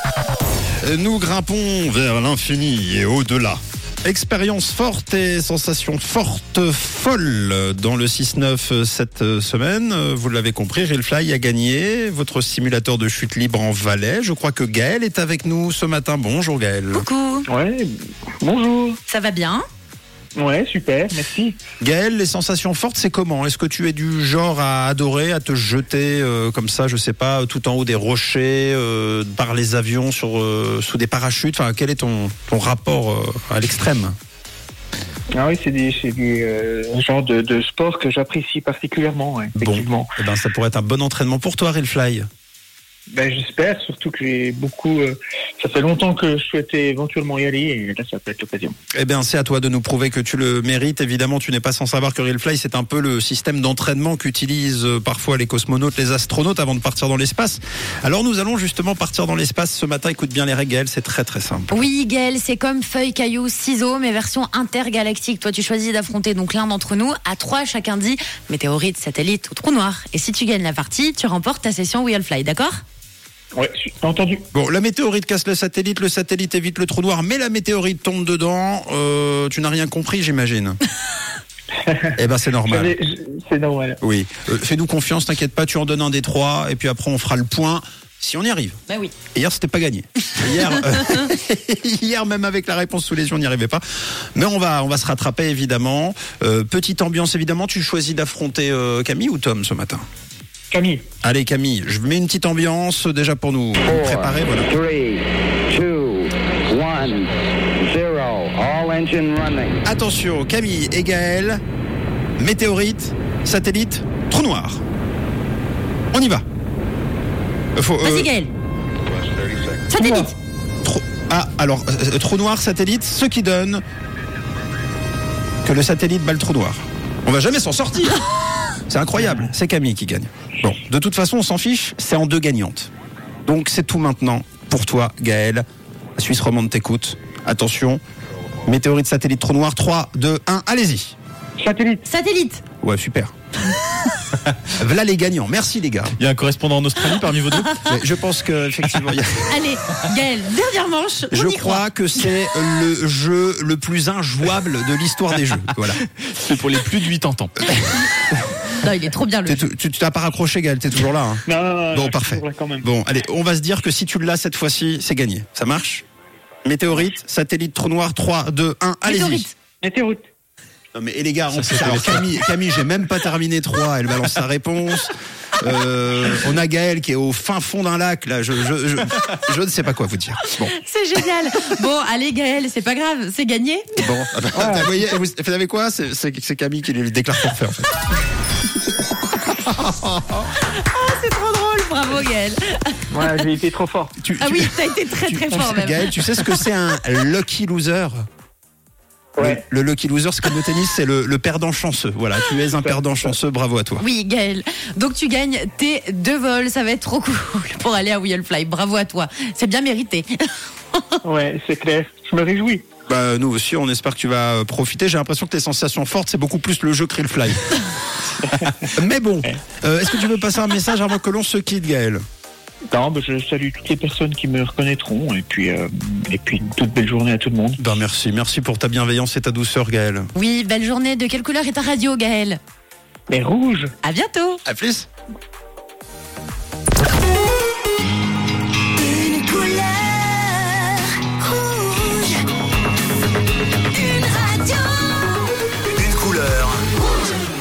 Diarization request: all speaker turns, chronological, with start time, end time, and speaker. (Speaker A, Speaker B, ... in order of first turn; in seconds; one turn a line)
Speaker A: 0.8-17.1
Speaker B: 16.9-17.4
Speaker C: 17.4-19.0
Speaker B: 19.1-19.6
Speaker C: 20.4-21.6
Speaker A: 21.8-34.1
Speaker C: 35.4-40.1
Speaker A: 39.5-42.3
Speaker C: 43.1-48.8
Speaker A: 48.9-61.8
Speaker B: 61.7-72.8
Speaker C: 73.5-74.5
Speaker A: 74.5-80.8
Speaker C: 81.8-82.1
Speaker A: 82.2-82.9
Speaker C: 82.6-84.0
Speaker A: 84.0-88.8
Speaker B: 88.9-89.1
Speaker A: 89.3-93.8
Speaker A: 94.3-100.0
Speaker C: 100.7-101.0
Speaker A: 101.2-104.7
Speaker D: 103.9-109.8
Speaker A: 109.8-111.6
Speaker A: 112.4-114.8
Speaker A: 116.1-116.4
Speaker A: 117.8-118.3
Speaker B: 118.0-118.5
Speaker B: 119.9-120.3
Speaker A: 120.0-120.3
Speaker A: 120.8-123.8
Speaker A: 125.6-128.2
Speaker A: 128.9-132.9
Speaker A: 133.4-135.6
Speaker A: 136.2-138.0
Speaker A: 138.7-141.2
Speaker C: 141.6-142.1
Speaker B: 142.1-142.6
Speaker A: 142.8-143.3
Speaker A: 144.7-146.1
Speaker E: 146.2-147.9
Speaker A: 147.8-149.5
Speaker B: 149.5-151.8
Speaker A: 151.3-156.0
Speaker E: 156.0-157.8
Speaker B: 158.8-159.7
Speaker A: 159.4-161.4
Speaker C: 161.4-162.9
Speaker A: 161.9-166.0
Speaker A: 166.6-169.5
Speaker B: 169.0-169.5
Speaker C: 169.8-170.3
Speaker A: 170.9-180.7
Speaker E: 171.5-172.3
Speaker B: 180.7-184.0
Speaker A: 184.0-187.9
Speaker C: 184.5-185.2
Speaker A: 189.5-190.4
Speaker B: 190.6-193.5
Speaker C: 193.1-194.2
Speaker A: 194.2-198.2
Speaker B: 194.4-196.6
Speaker C: 199.4-199.6
Speaker A: 199.4-204.0
Speaker C: 202.7-203.3
Speaker B: 204.0-211.2
Speaker C: 211.2-212.8
Speaker A: 213.1-217.8
Speaker A: 218.8-222.2
Speaker C: 222.9-227.8
Speaker A: 227.8-230.3
Speaker B: 230.3-232.6
Speaker C: 233.3-233.9
Speaker B: 234.0-234.6
Speaker A: 234.7-235.1
Speaker F: 239.1-240.2
Speaker B: 239.9-240.9
Speaker F: 241.2-242.1
Speaker B: 241.4-242.2
Speaker F: 244.3-244.7
Speaker E: 245.8-246.8